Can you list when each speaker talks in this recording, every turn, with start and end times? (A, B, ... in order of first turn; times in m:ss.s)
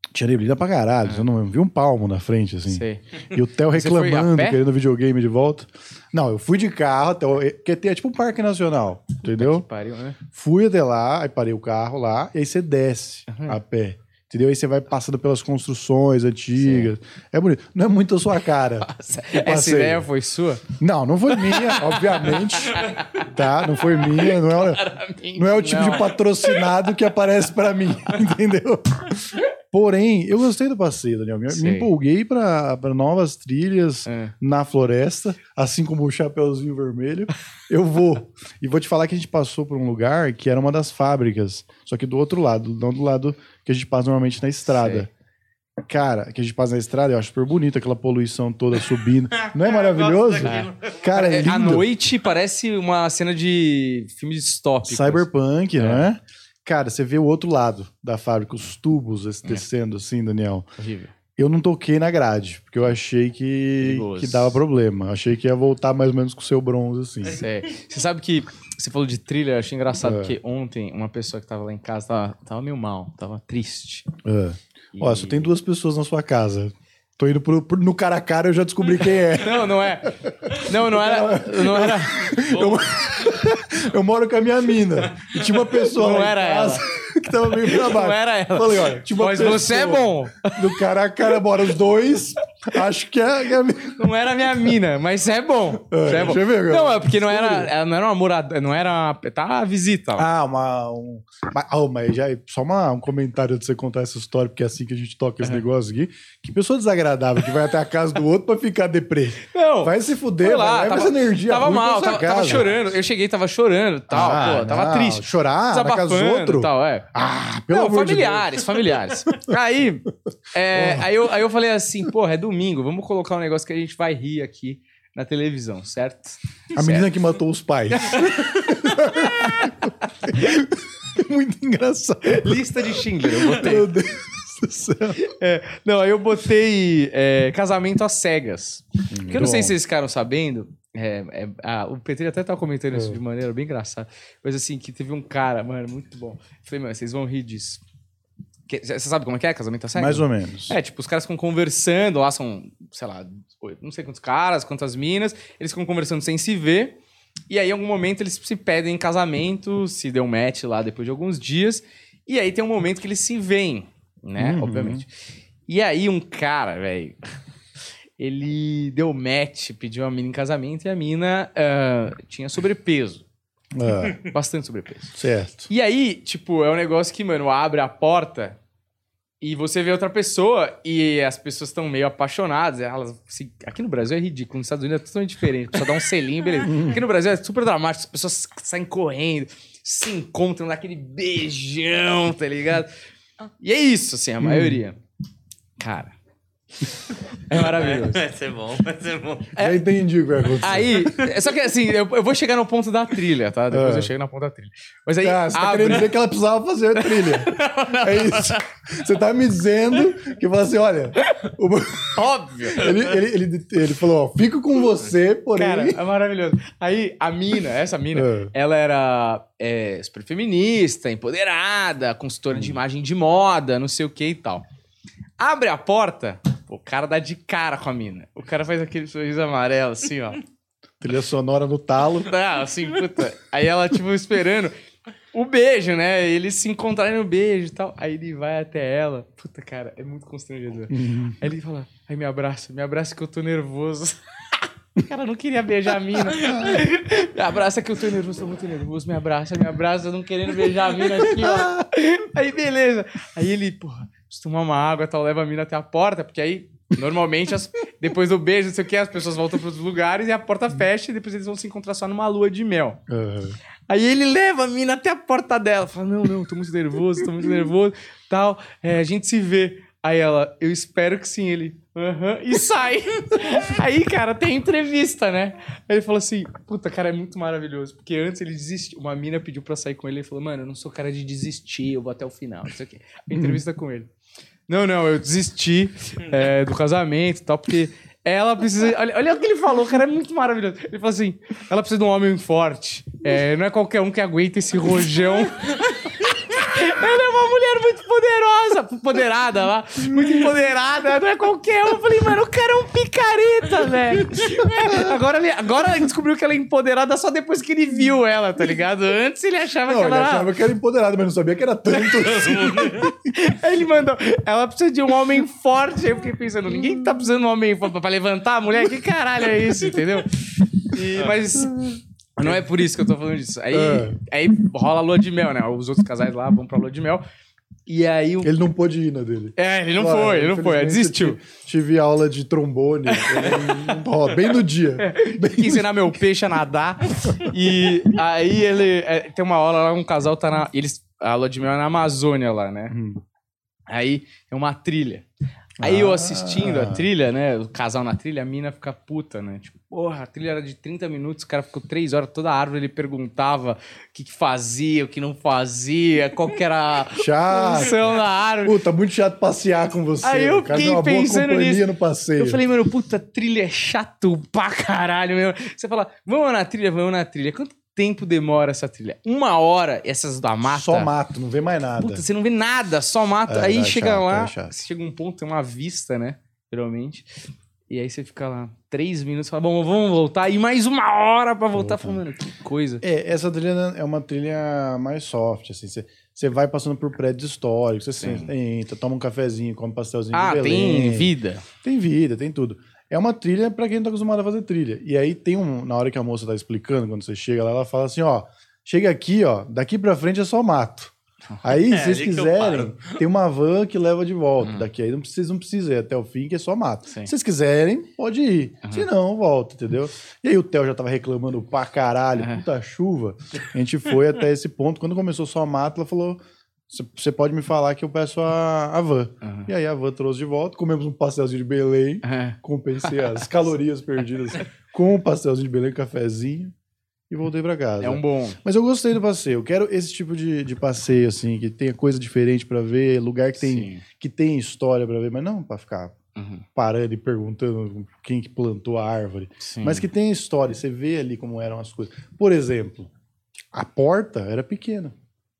0:00.1-0:09.6 A
0:02.7-0:03.0 B
0:03.7-0:04.6 B
0:09.2-0:10.2 B
0:10.3-0:20.1 A
0:13.3-0:13.6 B
0:16.6-0:16.9 B
0:18.8-0:20.7 B
0:20.7-0:24.8 A
0:21.4-0:26.6 B
0:25.3-0:45.1 A
0:31.5-0:31.9 B
0:34.0-0:34.3 B
0:44.7-0:45.0 B
0:45.8-0:51.9 A
0:49.4-0:51.0 C
0:50.4-0:56.1 B
0:54.8-1:00.7 A
1:00.8-1:01.1 B
1:01.4-1:07.4 A
1:03.8-1:04.6 B
1:07.3-1:14.1 B
1:10.0-1:10.4 A
1:14.2-1:34.0 A
1:14.9-1:15.5 B
1:19.3-1:22.5 B
1:22.5-1:22.8 C
1:25.9-1:26.8 B
1:27.5-1:30.7 B
1:33.9-1:40.3 B
1:35.9-1:37.7 A
1:40.2-1:52.7 A
1:49.4-1:57.1 B
1:54.1-1:59.4 A
1:57.7-2:07.2 B
2:00.7-2:01.1 A
2:06.8-2:15.2 A
2:08.0-2:09.9 B
2:12.2-2:13.9 B
2:15.2-2:27.8 B
2:19.1-2:19.8 A
2:22.9-2:23.2 A
2:28.7-2:37.0 B
2:29.9-2:30.8 A
2:37.5-2:45.1 B
2:44.4-2:45.0 A
2:45.7-2:47.2 B
2:48.2-2:53.2 B
2:53.7-2:54.2 A
2:54.2-2:55.2 B
2:55.1-2:55.7 A
2:55.7-2:58.6 B
2:59.4-3:12.9 B
3:06.6-3:07.0 A
3:13.4-3:15.0 B
3:14.4-3:14.8 A
3:15.8-3:16.2 B
3:17.5-3:18.2 B
3:17.5-3:19.6 C
3:19.6-3:21.3 A
3:20.6-3:26.1 B
3:23.7-3:24.1 A
3:25.2-3:36.0 A
3:27.0-3:28.6 B
3:32.1-3:32.9 B
3:35.6-3:44.6 B
3:38.1-3:38.5 A
3:42.5-3:42.8 A
3:45.4-3:50.4 B
3:51.0-3:52.3 A
3:52.2-3:54.7 B
3:55.3-4:04.2 B
4:00.9-4:01.4 A
4:05.0-4:23.0 B
4:06.4-4:06.8 A
4:11.2-4:11.9 A
4:23.1-4:23.6 A
4:23.9-4:44.1 B
4:43.3-4:43.6 A
4:44.7-5:10.5 B
5:00.0-5:00.6 A
5:04.7-5:05.2 A
5:09.8-5:13.3 A
5:12.0-5:27.2 B
5:12.2-5:13.1 C
5:21.6-5:22.6 A
5:23.7-5:24.2 A
5:27.9-5:28.6 B
5:28.4-5:36.1 A
5:29.6-5:31.4 B
5:33.2-5:33.6 B
5:35.0-5:42.9 B
5:42.9-5:43.2 A
5:43.9-5:45.2 B
5:45.8-5:47.1 A
5:45.8-5:58.8 B
5:57.1-6:02.6 A
6:00.2-6:11.1 B
6:10.6-6:12.2 A
6:12.0-6:17.3 B
6:13.4-6:14.7 A
6:17.9-6:23.0 B
6:21.7-6:22.2 A
6:23.0-6:31.3 A
6:28.2-6:28.5 B
6:30.3-6:31.6 B
6:31.8-7:06.7 A
6:41.8-6:43.2 C
6:44.6-6:44.9 B
6:48.8-6:49.1 B
6:52.4-6:52.6 B
6:59.4-6:59.7 B
7:02.2-7:03.4 B
7:07.3-7:16.2 A
7:08.0-7:08.6 B
7:13.6-7:14.0 B
7:16.3-7:16.6 B
7:16.7-7:23.1 A
7:19.6-7:20.1 B
7:23.7-7:25.1 A